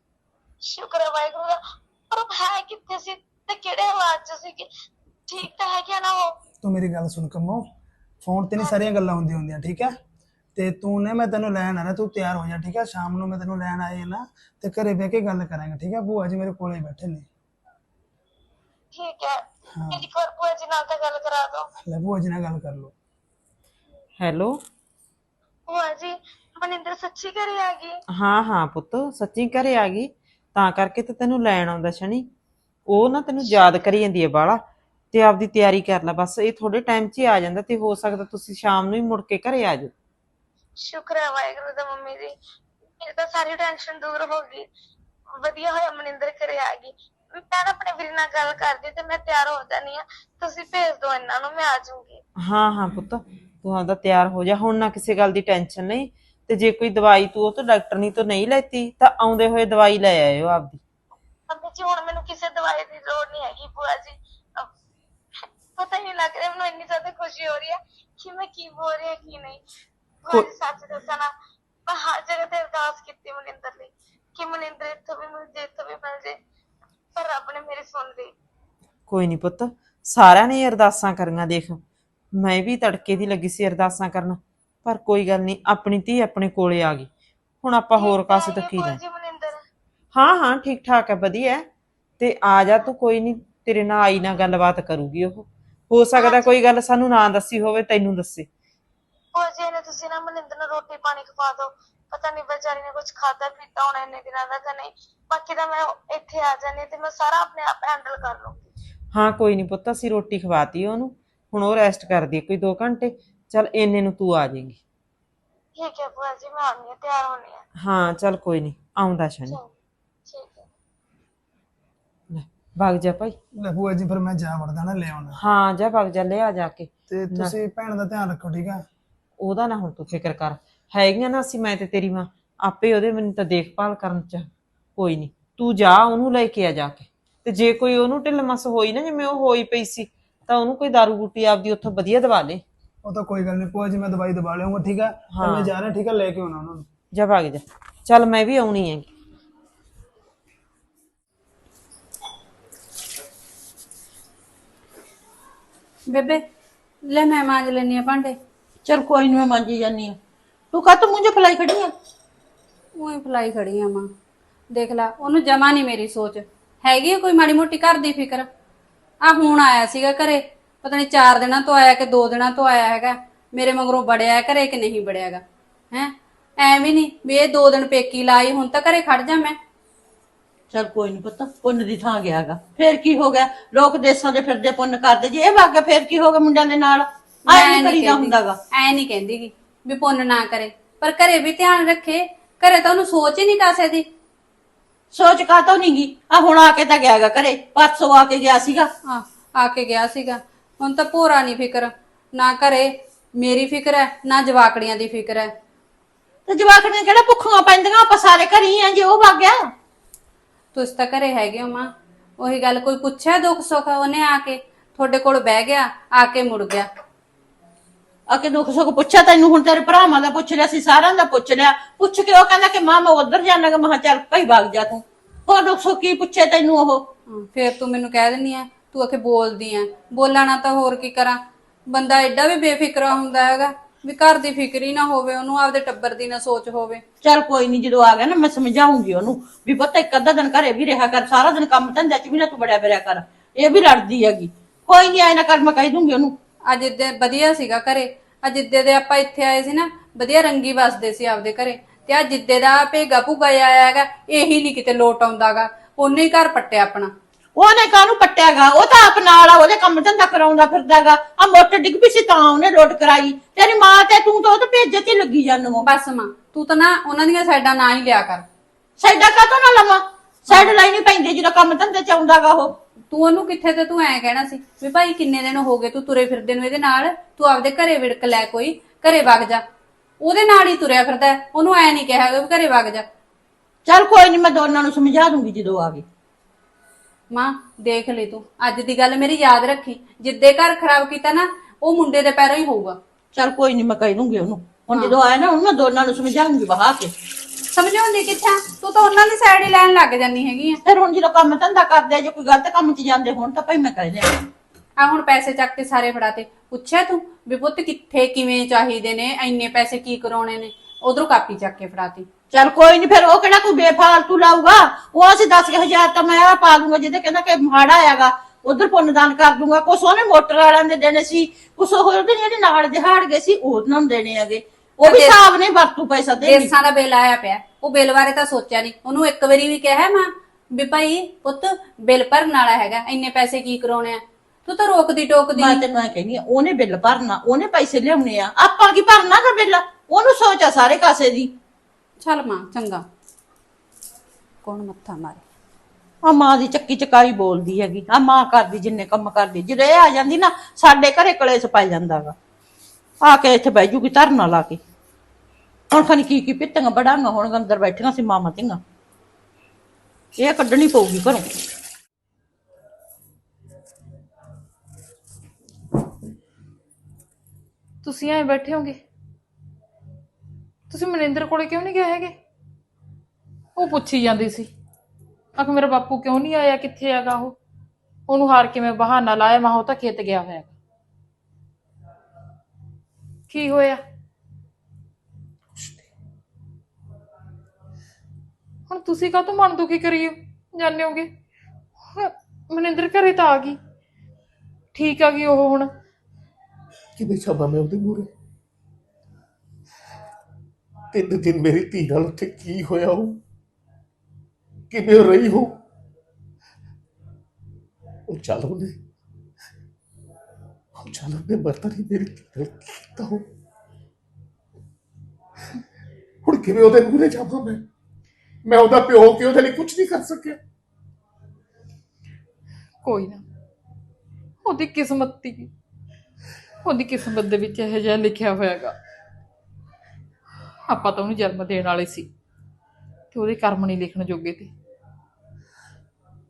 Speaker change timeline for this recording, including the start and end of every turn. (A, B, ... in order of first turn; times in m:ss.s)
0:00.7-0:04.7 A
0:05.3-0:06.4 A
0:06.6-0:07.6 B
0:08.2-0:09.9 B
0:10.6-0:17.3 B
0:18.9-0:19.4 A
0:19.7-0:20.0 B
0:19.9-0:21.7 A
0:21.8-0:22.9 B
0:24.2-0:24.6 C
0:25.7-0:28.0 A
0:28.1-0:32.3 C
0:32.9-0:39.9 C
0:40.8-0:42.4 A
0:43.0-0:44.7 A
0:45.4-0:52.2 A
0:52.4-1:00.8 C
1:01.5-1:04.7 A
1:05.8-1:09.6 A
1:10.2-1:11.3 A
1:11.9-1:16.4 A
1:17.2-1:18.3 A
1:19.1-1:21.8 C
1:22.4-1:27.1 C
1:27.6-1:29.0 C
1:28.0-1:29.6 A
1:30.1-1:31.7 C
1:32.2-1:38.5 C
1:36.2-1:36.6 A
1:39.4-1:48.7 A
1:49.1-1:54.8 C
1:55.8-1:57.6 A
1:57.8-1:59.6 C
2:00.3-2:00.7 A
2:02.3-2:03.4 C
2:03.6-2:05.4 B
2:05.4-2:07.6 C
2:07.1-2:08.8 B
2:09.4-2:22.6 C
2:23.1-2:26.9 B
2:25.3-2:25.7 C
2:27.1-2:29.1 C
2:36.1-2:36.4 D
2:37.0-2:38.4 D
2:38.8-2:40.2 E
2:40.7-2:41.9 E
2:43.0-2:44.1 D
2:44.7-2:48.5 D
2:49.2-2:59.6 D
3:00.7-3:08.6 E
3:07.5-3:14.1 D
3:15.1-3:18.9 E
3:19.1-3:25.5 D
3:26.5-3:29.7 E
3:30.7-3:36.9 D
3:38.3-3:47.1 E
3:47.3-3:57.0 D
3:57.2-4:06.4 E
4:06.7-4:17.1 D
4:17.6-4:25.9 E
4:25.8-4:28.5 D
4:29.0-4:32.8 E
4:30.5-4:30.7 D
4:33.1-4:39.6 D
4:40.2-4:43.1 D
4:43.9-4:46.0 E
4:47.3-4:53.0 D
4:53.3-4:57.1 E
4:57.7-5:00.8 D
5:00.9-5:04.4 E
5:05.0-5:12.3 D
5:12.5-5:26.7 E
5:25.0-5:25.4 D
5:26.4-5:35.9 D
5:35.6-5:41.5 E
5:42.2-5:43.0 D
5:44.6-5:45.4 D
5:46.2-5:52.4 E
5:53.2-5:54.8 E
5:55.9-5:58.8 E
6:00.4-6:01.5 E
6:08.0-6:09.0 F
6:10.9-6:12.4 F
6:13.8-6:14.7 F
6:15.6-6:17.6 F
6:18.3-6:20.8 F
6:23.5-6:24.0 F
6:25.8-6:26.0 G
6:28.9-6:31.3 F
6:32.1-6:33.8 F
6:34.9-6:35.9 F
6:37.2-6:38.3 G
6:41.1-6:43.4 G
6:44.9-6:45.7 G
6:48.3-6:49.0 G
6:51.0-6:53.4 G
6:56.4-6:57.8 G
6:58.6-7:00.6 G
7:03.0-7:03.4 F
7:04.6-7:05.7 F
7:06.8-7:09.0 F
7:10.9-7:12.3 F
7:13.3-7:14.7 F